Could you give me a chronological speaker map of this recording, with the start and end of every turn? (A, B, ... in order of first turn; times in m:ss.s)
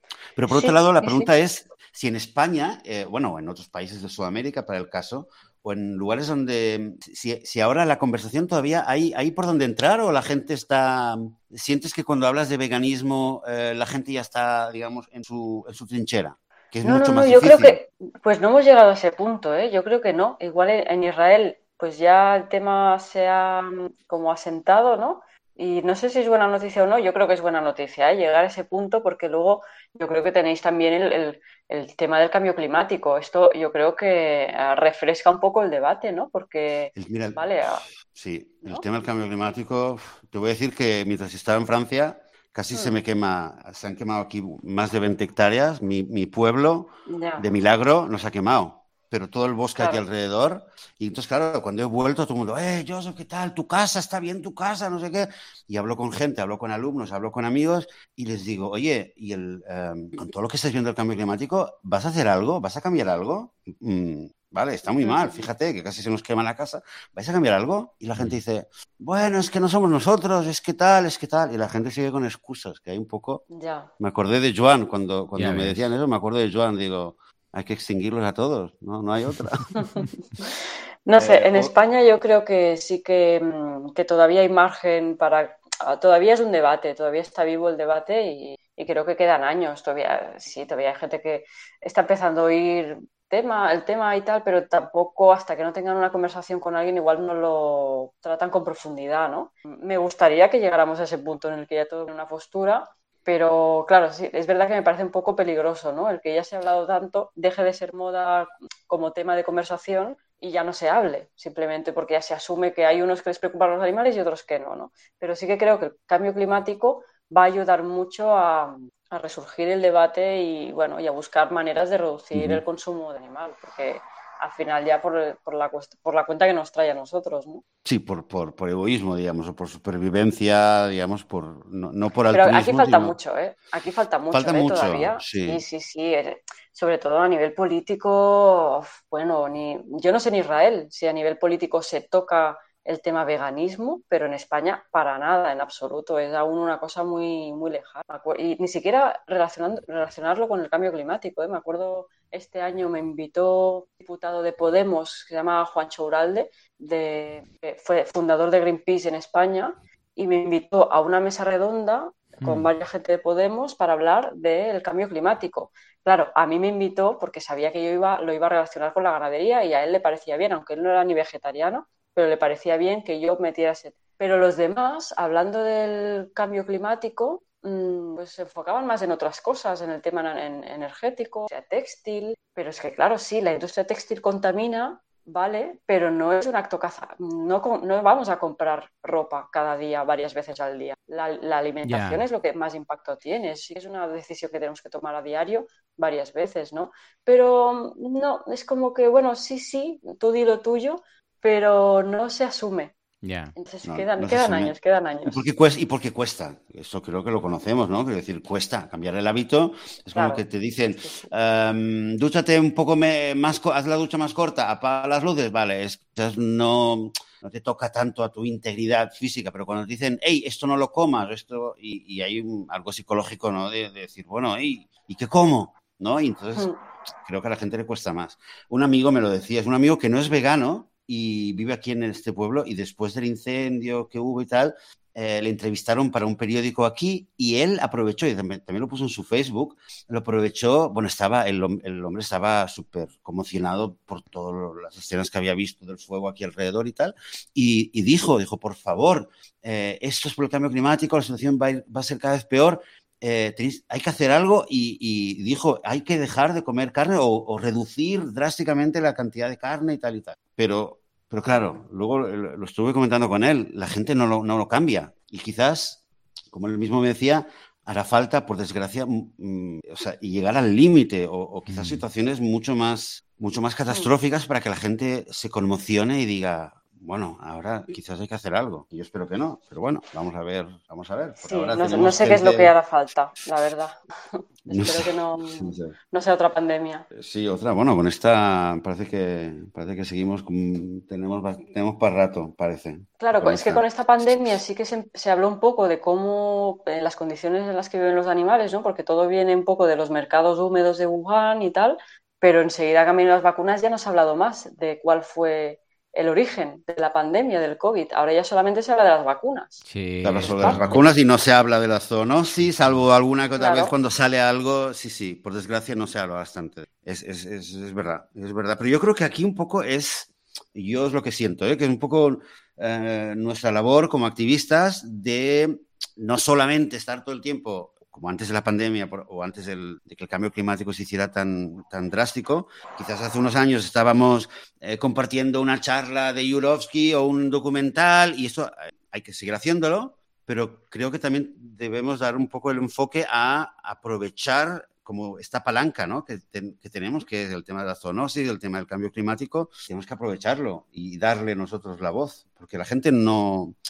0:00.4-0:17.8 A
0:00.5-0:01.3 B
0:16.8-0:37.8 B
0:37.0-1:13.4 A
0:42.7-0:43.0 B
0:47.1-0:47.5 B
0:49.8-0:50.0 B
1:05.0-1:05.5 B
1:13.5-1:13.9 B
1:14.0-1:20.0 A
1:15.4-1:15.9 C
1:19.8-2:07.6 B
1:21.2-1:21.7 A
2:02.3-2:02.6 A
2:07.8-2:13.2 A
2:12.3-3:22.9 B
2:14.3-2:15.6 A
2:42.4-2:42.7 C
3:11.8-3:12.2 C
3:23.2-3:23.5 C
3:23.6-3:25.4 B
3:23.8-3:46.7 A
3:30.1-3:30.4 B
3:31.0-3:31.3 B
3:47.2-4:42.7 A
4:31.7-4:32.0 C
4:41.4-4:47.1 B
4:44.7-4:45.9 A
4:47.1-4:54.5 A
4:53.2-5:09.8 B
5:09.8-5:10.9 C
5:10.2-5:53.8 A
5:10.5-5:11.0 B
5:13.6-5:13.9 B